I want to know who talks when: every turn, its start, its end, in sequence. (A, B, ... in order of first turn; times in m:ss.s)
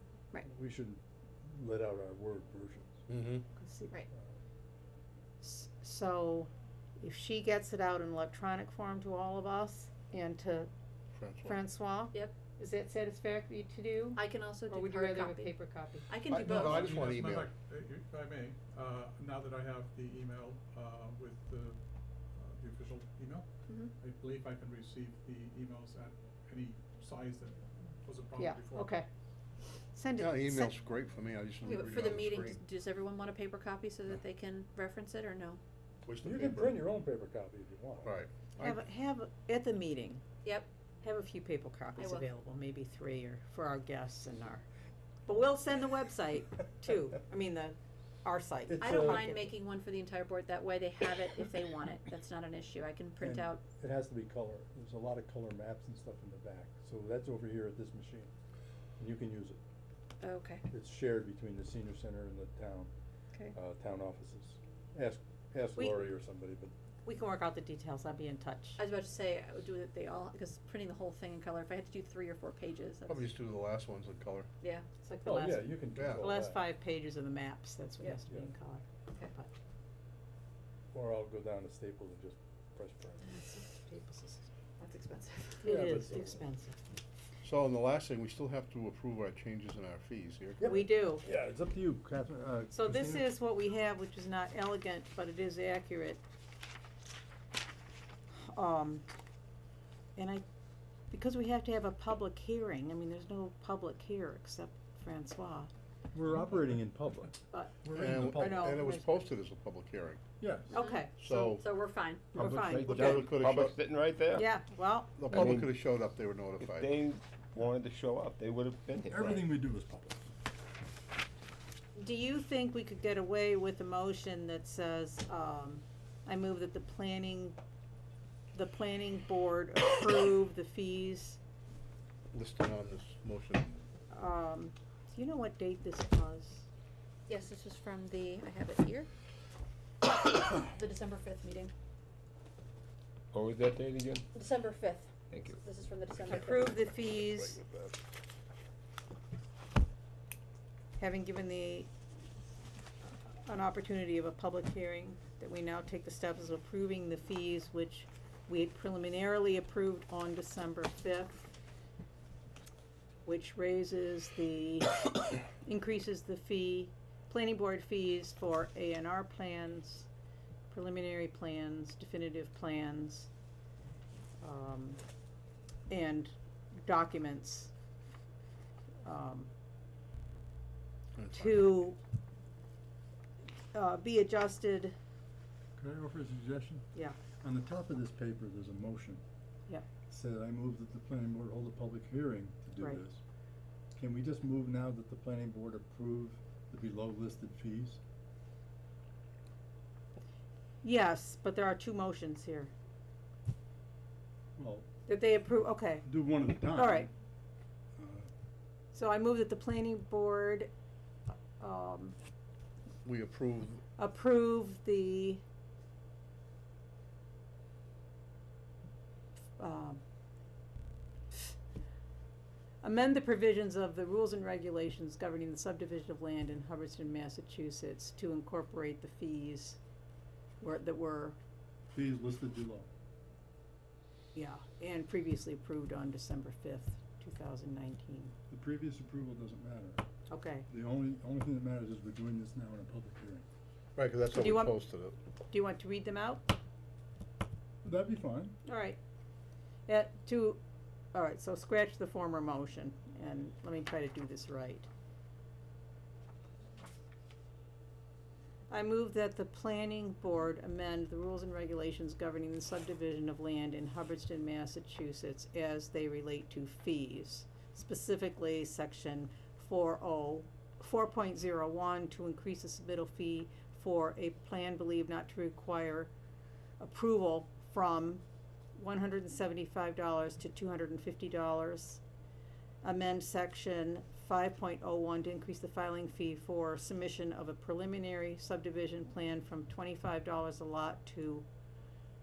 0:00.4-0:03.0 A
0:03.1-0:03.4 B
0:03.5-0:03.9 C
0:05.4-0:10.7 C
0:11.1-0:11.6 B
0:11.4-0:16.1 C
0:14.1-0:15.5 D
0:16.1-0:16.9 D
0:16.3-0:17.5 B
0:16.3-0:21.8 E
0:22.3-0:29.0 E
0:28.4-0:29.0 C
0:29.9-0:30.7 C
0:30.2-0:32.6 B
0:31.6-0:35.6 D
0:36.0-0:36.8 B
0:36.2-0:38.1 A
0:38.0-0:38.8 B
0:38.6-0:40.2 C
0:41.0-0:44.6 C
0:42.0-0:42.2 D
0:45.2-0:49.4 C
0:48.7-0:49.4 A
0:48.8-0:53.6 D
0:53.2-0:58.3 A
0:59.0-0:59.6 A
1:00.2-1:00.6 D
1:00.7-1:02.9 A
1:03.5-1:06.7 A
1:07.0-1:08.8 C
1:08.8-1:13.3 D
1:13.1-1:14.5 B
1:14.6-1:14.9 D
1:15.0-1:19.5 C
1:15.2-1:16.6 A
1:16.0-1:16.3 B
1:20.9-1:23.3 A
1:23.2-1:24.4 C
1:24.8-1:25.8 D
1:25.6-1:26.4 A
1:25.6-1:26.8 C
1:27.4-1:30.7 B
1:30.6-1:33.3 A
1:30.6-1:31.2 C
1:32.7-1:36.2 C
1:38.4-1:39.0 C
1:40.2-1:40.4 C
1:41.1-1:45.7 C
1:46.1-1:48.8 A
1:47.5-1:47.8 C
1:47.9-1:50.2 B
1:48.3-1:49.3 C
1:50.4-1:50.8 A
1:50.7-1:51.5 C
1:50.7-1:52.3 D
1:51.2-1:51.6 B
1:52.3-1:52.8 A
1:52.3-1:53.2 C
1:52.4-1:54.5 F
1:52.8-1:53.7 B
1:54.4-1:55.5 C
1:55.2-1:56.9 B
1:55.3-1:55.8 F
1:56.6-1:59.5 F
1:59.0-2:00.2 A
2:02.0-2:07.6 C
2:08.5-2:11.4 C
2:12.3-2:13.7 B
2:14.1-2:16.6 C
2:17.3-2:19.1 D
2:20.0-2:21.7 D
2:23.3-2:24.2 F
2:24.3-2:26.7 D
2:25.3-2:25.6 F
2:26.2-2:27.6 C
2:27.2-2:27.9 B
2:31.0-2:31.9 C
2:33.4-2:41.4 C
2:43.2-2:50.1 C
2:50.7-2:53.3 C
2:54.4-2:55.0 C
2:55.9-2:57.7 C
2:59.0-2:59.5 C
3:01.2-3:01.8 B
3:01.3-3:02.0 C
3:03.7-3:04.9 C
3:05.8-3:06.9 A
3:06.9-3:07.2 C
3:07.4-3:09.2 A
3:10.1-3:13.2 A
3:14.0-3:18.0 A
3:20.8-3:22.7 C
3:24.6-3:24.8 A
3:25.1-3:26.1 C
3:26.0-3:27.1 A
3:26.6-3:27.1 C
3:28.0-3:28.3 A
3:28.9-3:30.7 C
3:31.3-3:32.2 C
3:33.0-3:33.8 B
3:34.0-3:35.4 C
3:39.6-3:40.0 C
3:42.8-3:49.8 C
3:50.6-3:51.4 C
3:51.9-3:52.9 A
3:54.3-3:58.3 C
3:58.5-4:00.0 A
4:00.3-4:00.6 C
4:00.7-4:03.4 A
4:04.0-4:05.2 B
4:04.3-4:04.8 C
4:05.5-4:06.4 C
4:07.8-4:08.6 A
4:08.6-4:09.0 C
4:09.9-4:10.6 C
4:11.1-4:14.9 C
4:18.7-4:36.1 C
4:36.8-4:38.2 C
4:38.7-4:42.0 C
4:42.8-4:51.5 C